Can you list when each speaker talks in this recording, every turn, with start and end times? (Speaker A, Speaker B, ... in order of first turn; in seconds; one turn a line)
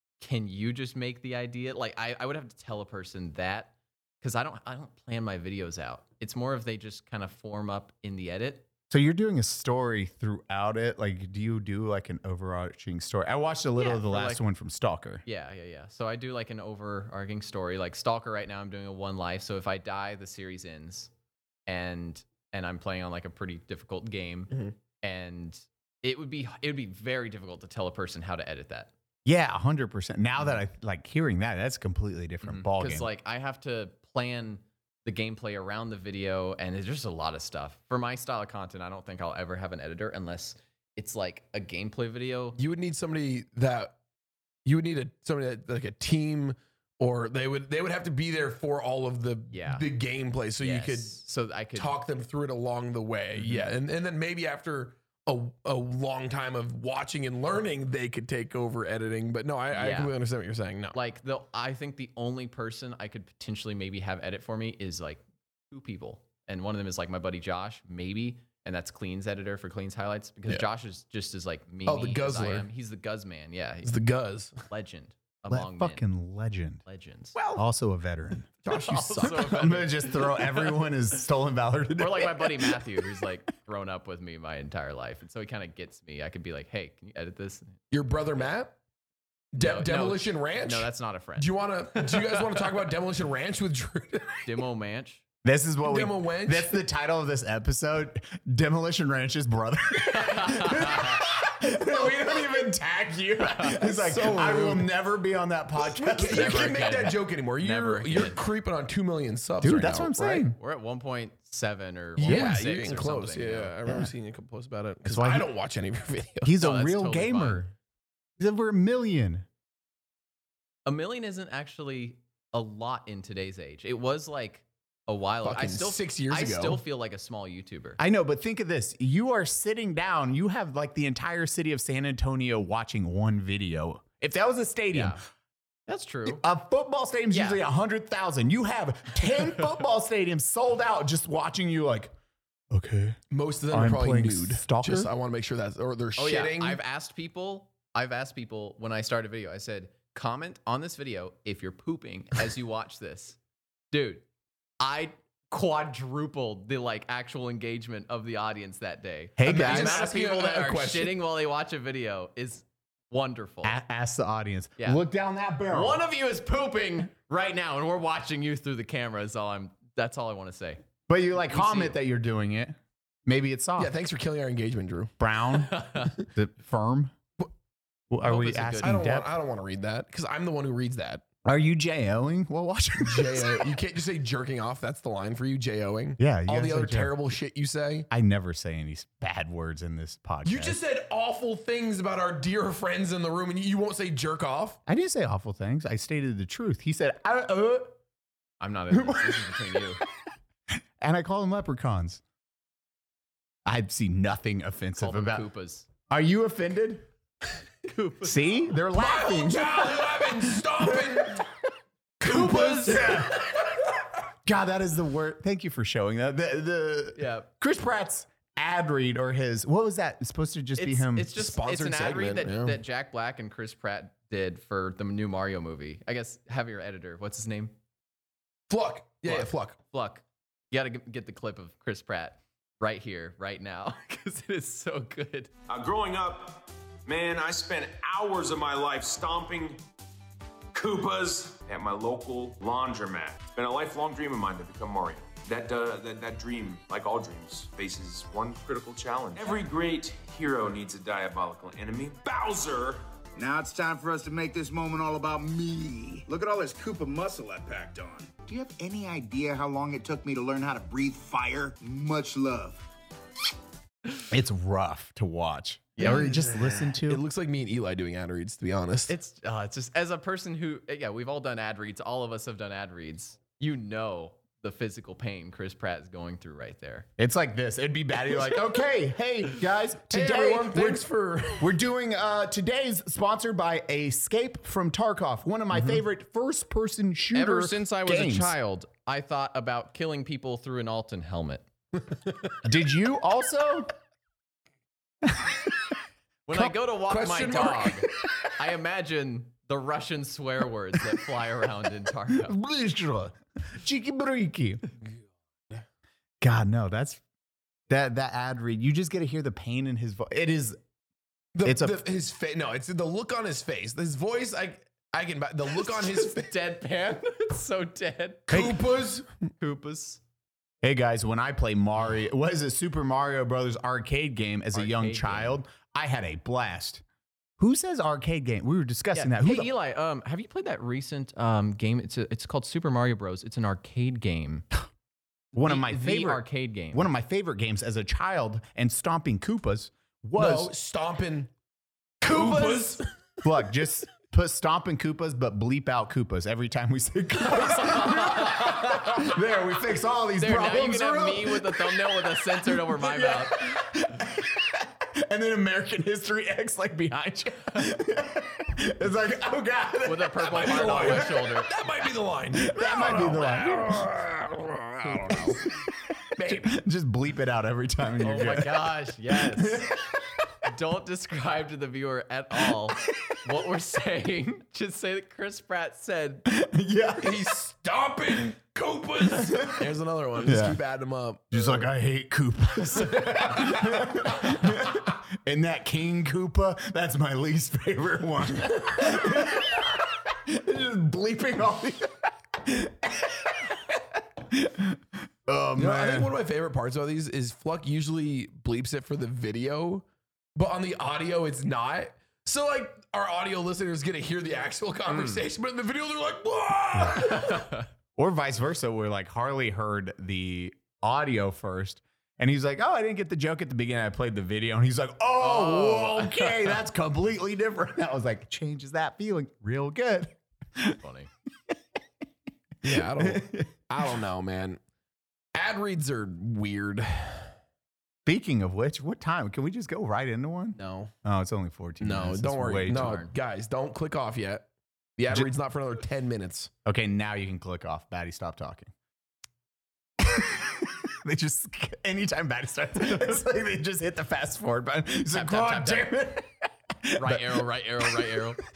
Speaker A: 0.2-8.6
Speaker B: 8.9-15.2
Speaker A: 13.8-14.4
Speaker A: 15.2-21.1
Speaker A: 21.7-28.9
Speaker B: 29.2-33.1
Speaker A: 32.4-42.6
Speaker C: 42.6-44.0
Speaker C: 44.6-51.2
Speaker A: 49.5-49.9
Speaker A: 50.6-52.0
Speaker C: 51.7-61.0
Speaker A: 53.4-53.7
Speaker A: 59.7-60.1
Speaker A: 60.9-74.0
Speaker C: 71.8-72.7
Speaker C: 73.8-74.6
Speaker A: 74.7-76.0
Speaker B: 75.5-76.8
Speaker A: 76.8-77.4
Speaker B: 77.5-83.3
Speaker C: 78.7-79.5
Speaker A: 78.7-80.6
Speaker A: 82.0-87.8
Speaker C: 87.9-88.7
Speaker C: 89.5-94.5
Speaker A: 89.5-92.4
Speaker A: 94.4-95.2
Speaker B: 95.4-107.1
Speaker C: 95.8-96.8
Speaker A: 100.2-101.2
Speaker C: 103.8-104.9
Speaker C: 105.8-110.4
Speaker A: 106.3-108.4
Speaker B: 109.6-110.6
Speaker A: 110.5-113.7
Speaker C: 112.2-116.5
Speaker B: 112.2-112.5
Speaker B: 115.0-115.5
Speaker B: 116.4-117.7
Speaker A: 116.6-117.6
Speaker B: 118.4-119.5
Speaker A: 120.8-128.0
Speaker C: 125.4-126.8
Speaker B: 128.0-135.2
Speaker A: 134.9-135.2
Speaker A: 135.9-136.4
Speaker B: 136.2-142.1
Speaker A: 137.3-137.6
Speaker B: 142.7-143.2
Speaker C: 143.3-146.8
Speaker B: 143.7-145.1
Speaker A: 146.2-153.4
Speaker A: 153.9-154.2
Speaker A: 154.8-163.8
Speaker B: 159.4-160.1
Speaker C: 159.4-161.2
Speaker B: 163.6-166.0
Speaker A: 165.7-170.8
Speaker B: 171.1-173.9
Speaker A: 171.5-172.0
Speaker C: 173.8-175.1
Speaker B: 175.2-177.2
Speaker A: 175.6-176.1
Speaker B: 178.1-179.3
Speaker A: 178.2-179.0
Speaker C: 178.8-181.2
Speaker B: 181.4-183.7
Speaker C: 183.0-188.1
Speaker B: 186.2-187.1
Speaker B: 188.1-190.8
Speaker C: 190.4-194.8
Speaker B: 194.9-197.9
Speaker A: 198.6-200.0
Speaker B: 198.9-199.6
Speaker B: 201.0-202.2
Speaker B: 203.7-205.5
Speaker A: 205.0-205.9
Speaker B: 206.1-207.1
Speaker A: 207.9-208.5
Speaker B: 208.2-211.4
Speaker C: 208.9-211.4
Speaker A: 212.2-213.2
Speaker C: 212.2-213.3
Speaker B: 212.8-213.5
Speaker B: 214.4-221.3
Speaker A: 217.1-217.5
Speaker A: 220.8-227.7
Speaker C: 221.3-222.8
Speaker C: 228.7-229.8
Speaker A: 229.2-235.5
Speaker D: 235.7-239.8
Speaker D: 240.7-253.0
Speaker E: 253.3-262.9
Speaker B: 264.3-267.2
Speaker A: 266.0-266.6
Speaker C: 266.0-269.1
Speaker A: 269.1-277.1
Speaker B: 277.2-281.1
Speaker C: 280.1-281.7
Speaker B: 281.6-288.5
Speaker A: 287.3-291.7
Speaker B: 292.6-293.9
Speaker B: 295.2-295.8
Speaker A: 296.5-302.6
Speaker C: 297.1-298.0
Speaker B: 302.4-304.9
Speaker B: 306.4-307.2
Speaker B: 307.9-310.8
Speaker C: 311.5-316.5
Speaker B: 311.6-312.0
Speaker A: 315.7-318.7
Speaker C: 318.5-319.3
Speaker A: 319.6-320.2
Speaker B: 320.8-327.0
Speaker A: 324.7-325.6
Speaker B: 327.6-329.7
Speaker A: 329.1-334.6
Speaker B: 335.5-340.7
Speaker A: 335.6-337.1
Speaker C: 340.4-341.5
Speaker A: 342.2-343.0
Speaker C: 342.2-343.0
Speaker B: 343.4-361.4
Speaker A: 347.6-349.1
Speaker A: 350.4-353.9
Speaker A: 360.0-361.7
Speaker C: 360.4-365.6
Speaker B: 362.5-364.1
Speaker B: 365.1-365.9
Speaker C: 366.3-366.7
Speaker B: 366.4-370.5
Speaker A: 368.2-369.9
Speaker A: 370.6-376.5
Speaker B: 376.5-377.5
Speaker C: 377.2-381.8
Speaker B: 379.2-379.9
Speaker B: 380.4-380.8
Speaker B: 381.5-396.3
Speaker C: 382.9-383.9
Speaker C: 395.8-400.0
Speaker C: 400.6-407.6
Speaker A: 405.1-405.4
Speaker A: 407.3-407.8
Speaker B: 408.1-421.0
Speaker A: 415.4-416.7
Speaker A: 421.0-421.3
Speaker C: 422.8-424.8
Speaker B: 422.9-423.7
Speaker C: 425.5-427.5
Speaker B: 428.2-433.2
Speaker C: 430.7-431.1
Speaker C: 432.0-436.7
Speaker A: 432.9-433.3
Speaker B: 436.8-438.9
Speaker B: 440.2-447.6
Speaker A: 445.3-446.1
Speaker A: 447.2-448.6